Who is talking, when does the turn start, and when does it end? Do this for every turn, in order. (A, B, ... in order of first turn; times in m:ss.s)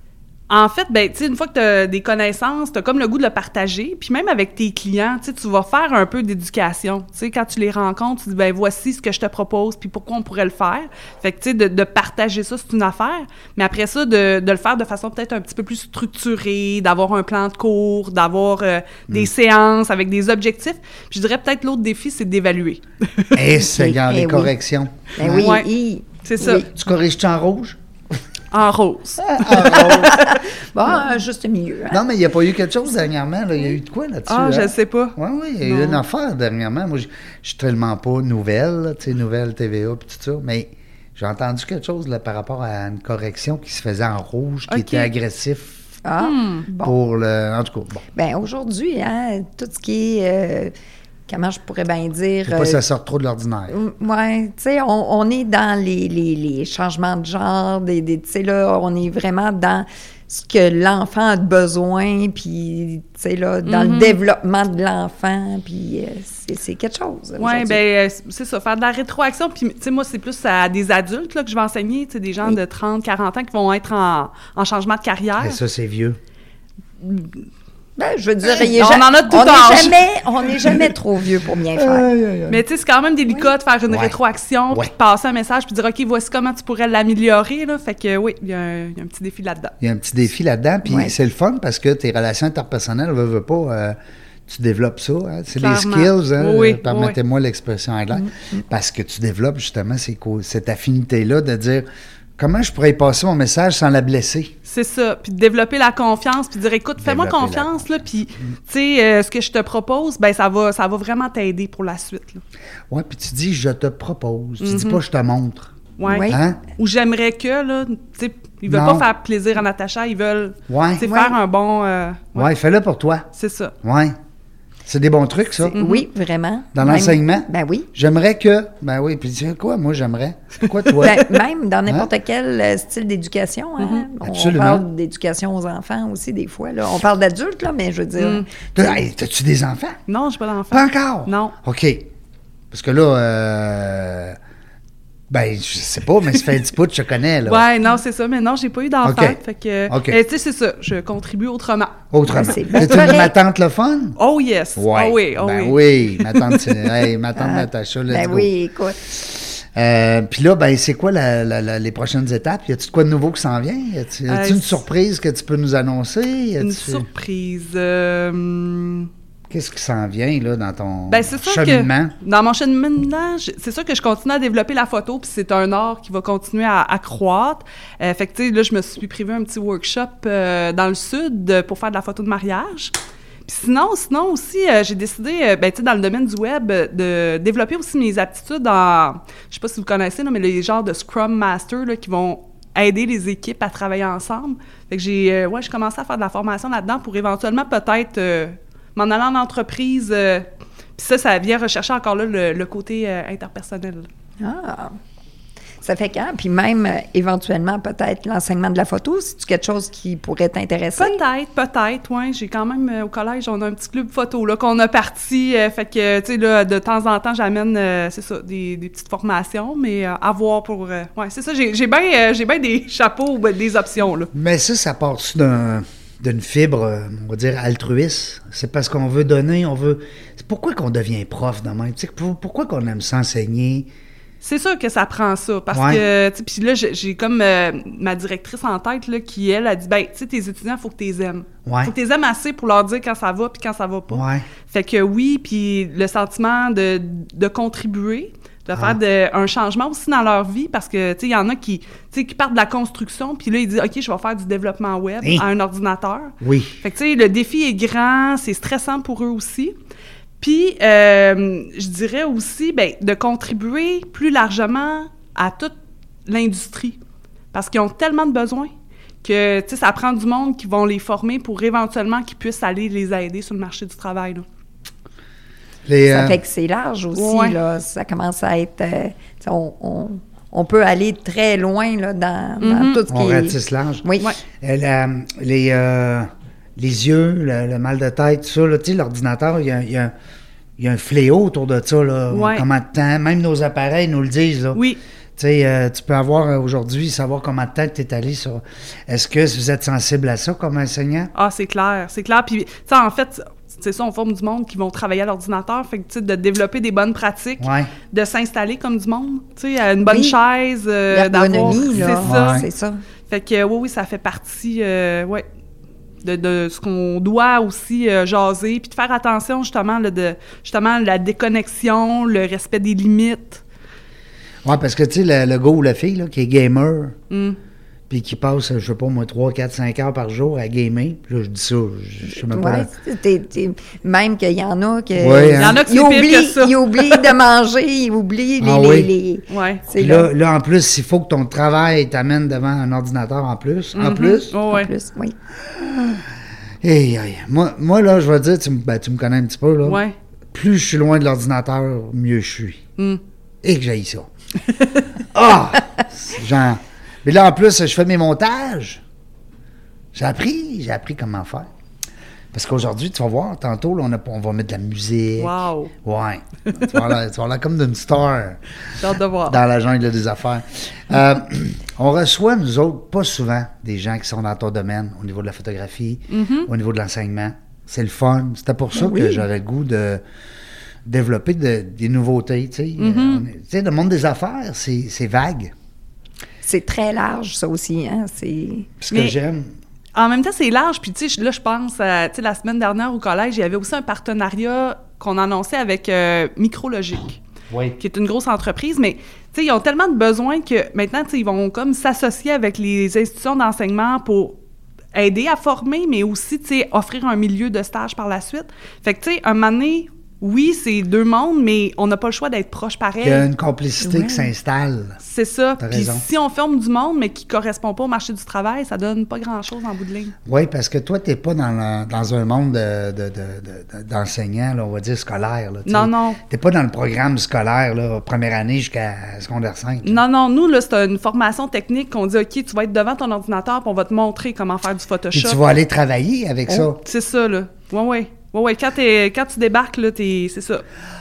0:00.5-0:23.4 A
0:23.3-0:25.6 B
0:23.7-0:24.5 C
0:25.2-0:26.7 C
0:25.4-0:25.7 A
0:26.2-0:26.6 A
0:26.7-0:27.8 B
0:28.5-0:30.4 A
0:29.2-0:30.3 B
0:29.6-0:32.0 C
0:31.9-0:45.9 B
0:34.3-0:36.0 A
0:44.7-0:45.1 A
0:46.0-0:46.9 C
0:46.2-0:46.6 A
0:46.8-0:48.0 B
0:48.1-0:50.7 C
0:51.3-0:52.8 C
0:52.4-0:53.7 B
0:53.7-1:07.8 C
1:03.6-1:04.2 A
1:07.4-1:15.6 A
1:15.4-1:16.2 B
1:18.0-1:22.1 C
1:18.6-1:20.0 A
1:21.7-1:22.6 B
1:22.5-1:29.7 A
1:23.9-1:24.1 B
1:29.8-1:34.0 B
1:30.8-1:31.1 C
1:34.5-1:41.8 B
1:35.6-1:37.2 A
1:42.4-1:44.5 B
1:44.7-1:52.4 A
1:47.0-1:48.0 B
1:52.9-1:55.7 B
1:54.6-1:55.0 A
1:56.0-2:02.5 A
1:56.0-1:56.4 C
1:56.3-1:56.6 B
1:58.7-1:59.1 B
2:00.7-2:01.1 B
2:01.0-2:01.4 C
2:02.3-2:03.3 B
2:03.3-2:03.7 A
2:03.8-2:04.2 B
2:04.8-2:05.8 B
2:05.6-2:07.9 C
2:05.7-2:06.0 A
2:06.7-2:12.1 B
2:11.0-2:18.4 C
2:13.8-2:14.0 A
2:14.2-2:14.8 B
2:18.2-2:18.5 A
2:18.7-2:20.0 B
2:20.1-2:21.5 A
2:20.7-2:22.1 B
2:22.7-2:24.4 B
2:25.3-2:27.6 B
2:27.4-2:32.0 A
2:29.0-2:30.2 B
2:32.1-2:34.2 B
2:32.3-2:33.3 C
2:32.8-2:33.1 A
2:34.2-2:36.9 A
2:34.8-2:38.5 B
2:37.4-2:39.0 C
2:39.1-2:47.0 B
2:44.3-2:44.8 A
2:46.6-2:49.1 A
2:49.5-2:52.1 B
2:51.1-3:02.9 A
3:03.4-3:24.1 A
3:24.4-3:25.0 C
3:25.8-3:31.2 C
3:31.0-3:44.3 A
3:44.3-3:53.9 B
3:54.4-4:19.7 A
3:55.7-3:56.0 B
4:01.6-4:01.9 B
4:04.1-4:04.4 B
4:08.7-4:09.0 B
4:16.4-4:16.8 B
4:20.4-4:25.7 A
4:26.2-4:27.0 A
4:27.5-4:28.7 A
4:29.2-4:34.4 A
4:35.8-4:36.4 B
4:36.1-4:44.3 C
4:37.1-4:37.6 A
4:42.6-4:43.0 A
4:43.1-4:44.0 B
4:44.6-4:50.1 B
4:50.8-4:54.8 B
4:52.3-4:52.6 A
4:54.7-4:55.0 A
4:55.4-5:01.3 B
5:01.3-5:12.6 A
5:07.6-5:07.9 B
5:10.0-5:10.4 C
5:11.1-5:13.0 C
5:11.8-5:12.7 B
5:13.3-5:15.4 A
5:16.2-5:23.6 A
5:24.6-5:27.2 B
5:27.3-5:27.6 A
5:28.1-5:32.9 B
5:32.2-5:40.3 C
5:35.2-5:35.8 B
5:35.6-5:37.3 A
5:38.6-5:39.1 B
5:39.5-5:39.8 A
5:40.0-5:44.5 B
5:43.9-5:44.9 A
5:44.6-5:45.3 C
5:45.6-5:46.2 B
5:46.8-5:52.8 B
5:49.8-5:50.1 A
5:53.6-5:54.3 B
5:55.3-5:59.0 B
6:00.1-6:01.7 B
6:02.5-6:05.5 B
6:05.4-6:05.9 A
6:06.0-6:08.6 B
6:06.7-6:07.0 A
6:09.0-6:09.6 A
6:09.5-6:20.2 B
6:16.3-6:16.7 A
6:18.9-6:19.4 C
6:21.0-6:25.7 B
6:23.0-6:23.4 A
6:26.6-6:28.9 C
6:29.0-6:29.7 B
6:29.1-6:29.4 A
6:30.1-6:37.4 A
6:37.7-6:38.0 B
6:38.0-6:44.6 A
6:45.1-6:53.5 A
6:53.2-6:55.2 B
6:54.0-6:54.5 C
6:55.2-7:00.3 A
6:55.8-6:56.2 B
7:00.4-7:10.2 B
7:05.8-7:06.4 A
7:10.0-7:15.6 A
7:15.3-7:17.0 B
7:17.0-7:20.8 A